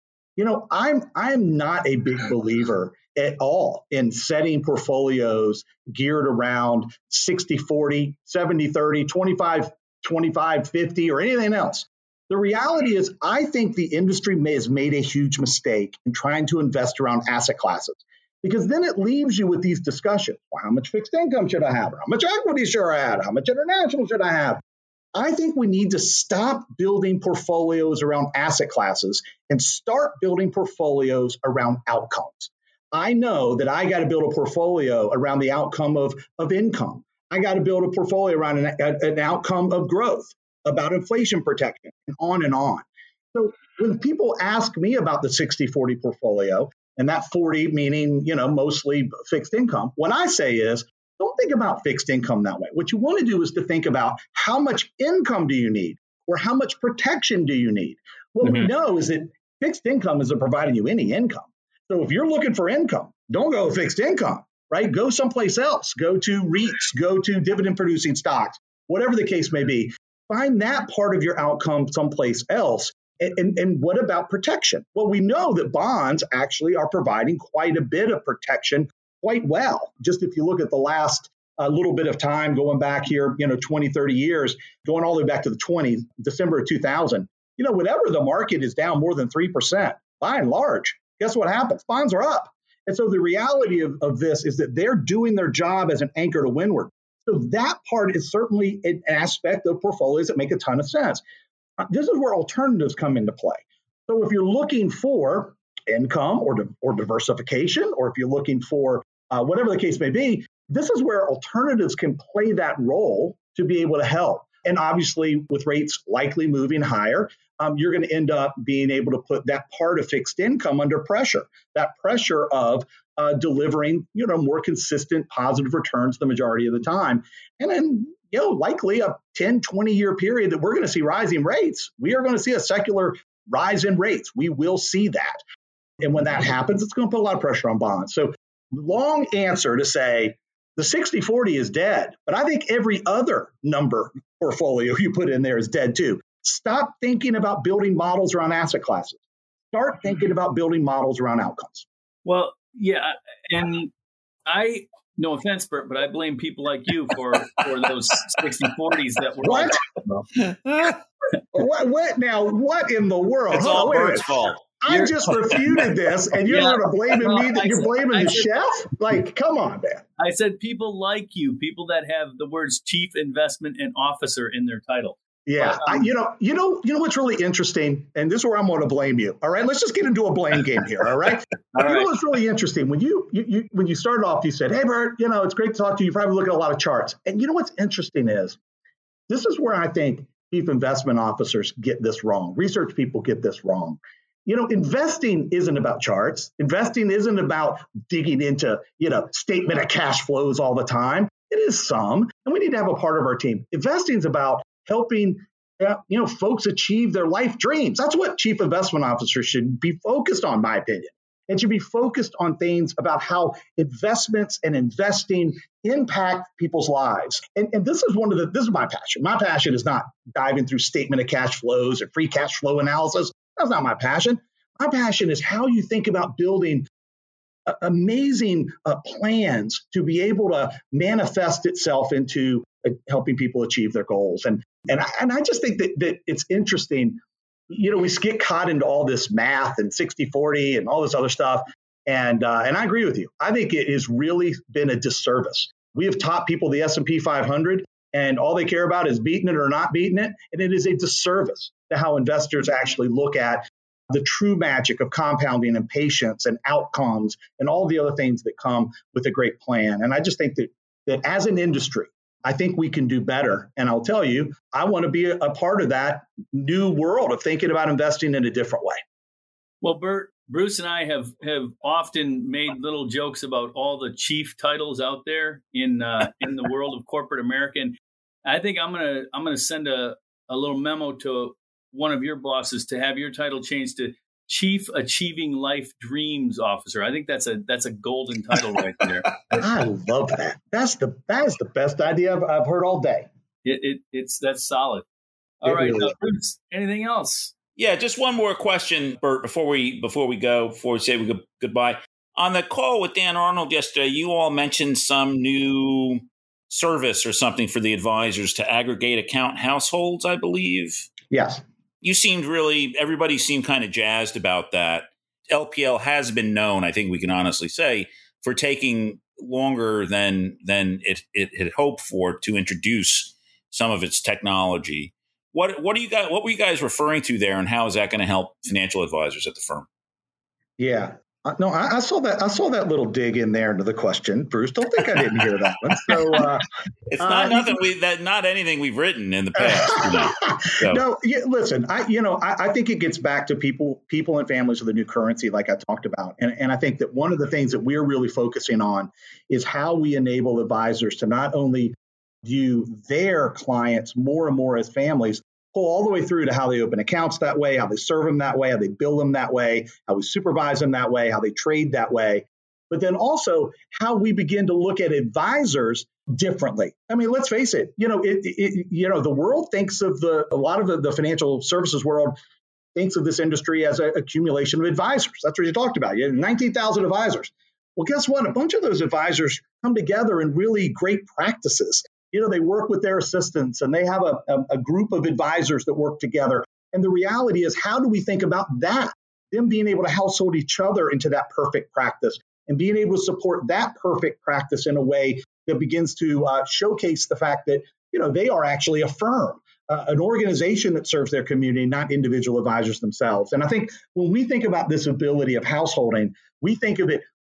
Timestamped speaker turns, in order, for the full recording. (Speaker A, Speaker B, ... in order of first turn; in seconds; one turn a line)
Speaker A: 0.4-24.6
Speaker A: 25.1-101.2
Speaker A: 101.8-135.4
Speaker A: 136.0-149.2
Speaker A: 149.7-151.8
Speaker B: 152.2-153.9
Speaker B: 154.4-160.2
Speaker A: 159.4-159.8
Speaker C: 160.5-160.9
Speaker A: 161.5-170.0
Speaker C: 163.5-164.6
Speaker B: 164.9-165.2
Speaker B: 166.5-168.5
Speaker B: 170.2-176.1
Speaker A: 175.4-188.6
Speaker B: 181.7-182.1
Speaker A: 189.3-226.9
Speaker A: 227.7-269.0
Speaker B: 269.8-289.4
Speaker A: 289.6-293.3
Speaker B: 293.6-295.1
Speaker B: 295.6-297.5
Speaker A: 295.6-296.1
Speaker C: 297.8-311.1
Speaker A: 311.3-311.6
Speaker C: 312.0-329.9
Speaker A: 330.8-336.7
Speaker C: 337.1-341.0
Speaker A: 337.2-337.8
Speaker A: 339.6-372.4
Speaker A: 372.9-407.3